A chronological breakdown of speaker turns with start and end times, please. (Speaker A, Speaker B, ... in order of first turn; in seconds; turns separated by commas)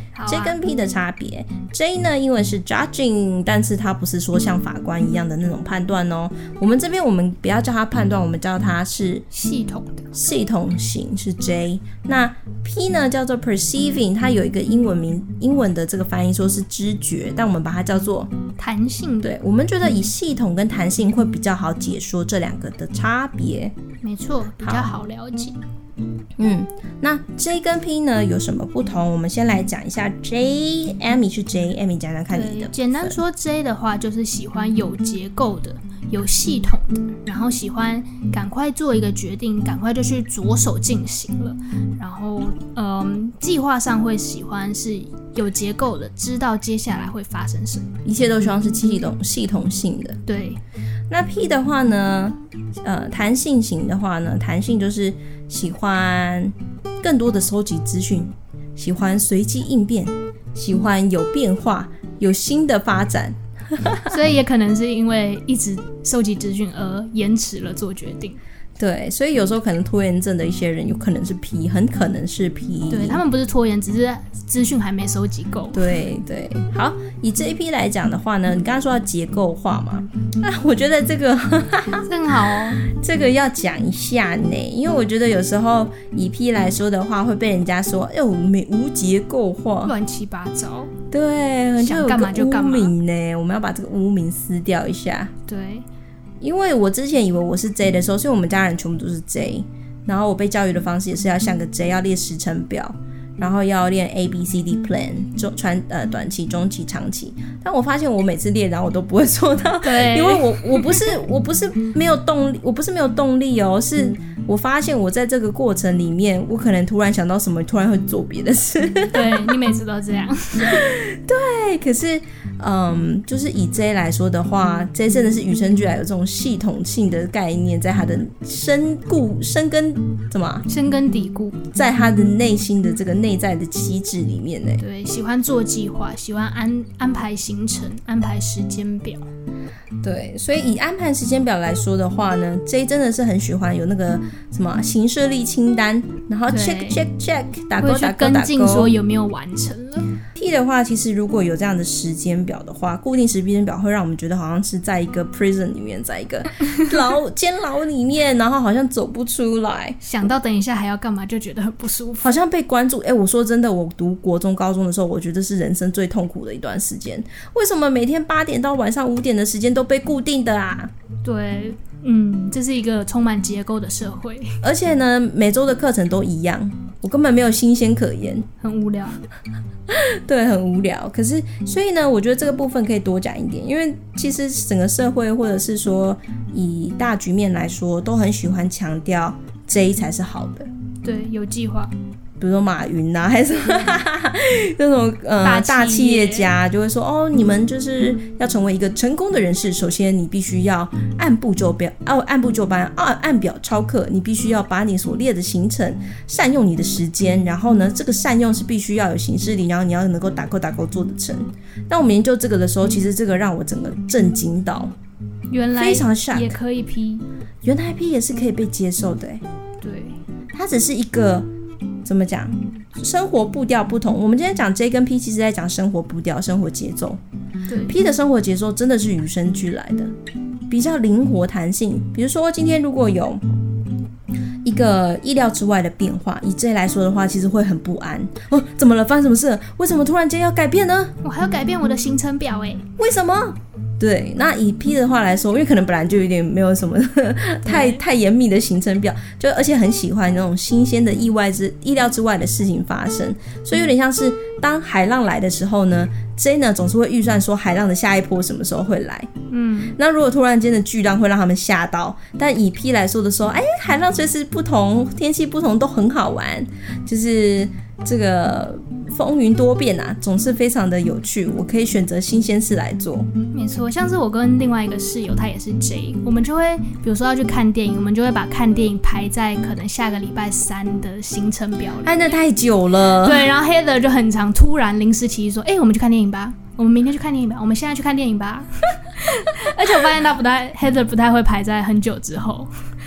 Speaker A: 0.1-0.6, Speaker B: 0.3-9.3, Speaker A: 9.3-10.1, Speaker B: 10.1-18.3, Speaker A: 18.6-19.4, Speaker B: 19.2-23.8, Speaker A: 24.0-25.6, Speaker B: 24.6-24.9, Speaker B: 26.4-33.2, Speaker A: 32.3-47.9, Speaker B: 48.0-50.2, Speaker A: 50.3-50.6, Speaker B: 51.1-64.2, Speaker A: 64.1-68.4, Speaker B: 68.8-73.2, Speaker A: 72.9-75.8, Speaker B: 75.7-90.0, Speaker A: 82.0-82.8, Speaker A: 89.8-90.9, Speaker B: 91.1-95.3, Speaker A: 91.8-92.9, Speaker A: 95.5-95.8, Speaker B: 96.4-119.6, Speaker A: 109.8-111.1, Speaker A: 119.1-120.8, Speaker B: 120.6-130.7, Speaker A: 130.7-131.6, Speaker B: 131.7-134.8, Speaker A: 134.8-139.3, Speaker B: 140.0-148.9, Speaker A: 146.5-147.0, Speaker A: 147.8-150.2, Speaker B: 150.3-160.0, Speaker A: 160.0-162.4, Speaker B: 162.2-170.9, Speaker A: 171.2-174.6, Speaker B: 174.6-178.5, Speaker A: 178.6-179.2, Speaker B: 179.9-190.7, Speaker A: 191.0-191.9, Speaker B: 192.4-214.9, Speaker A: 195.4-196.5, Speaker A: 215.5-217.2, Speaker B: 215.8-216.6, Speaker B: 217.6-219.4, Speaker A: 219.8-220.2, Speaker B: 220.5-221.5, Speaker B: 222.1-227.2, Speaker A: 227.7-228.0, Speaker B: 227.8-230.1, Speaker B: 230.7-233.4, Speaker B: 234.7-241.2, Speaker A: 241.2-242.8, Speaker B: 243.0-259.3, Speaker A: 247.7-248.0, Speaker A: 259.5-260.0, Speaker B: 260.0-273.3, Speaker A: 273.5-282.4, Speaker B: 282.0-283.5, Speaker A: 283.2-292.7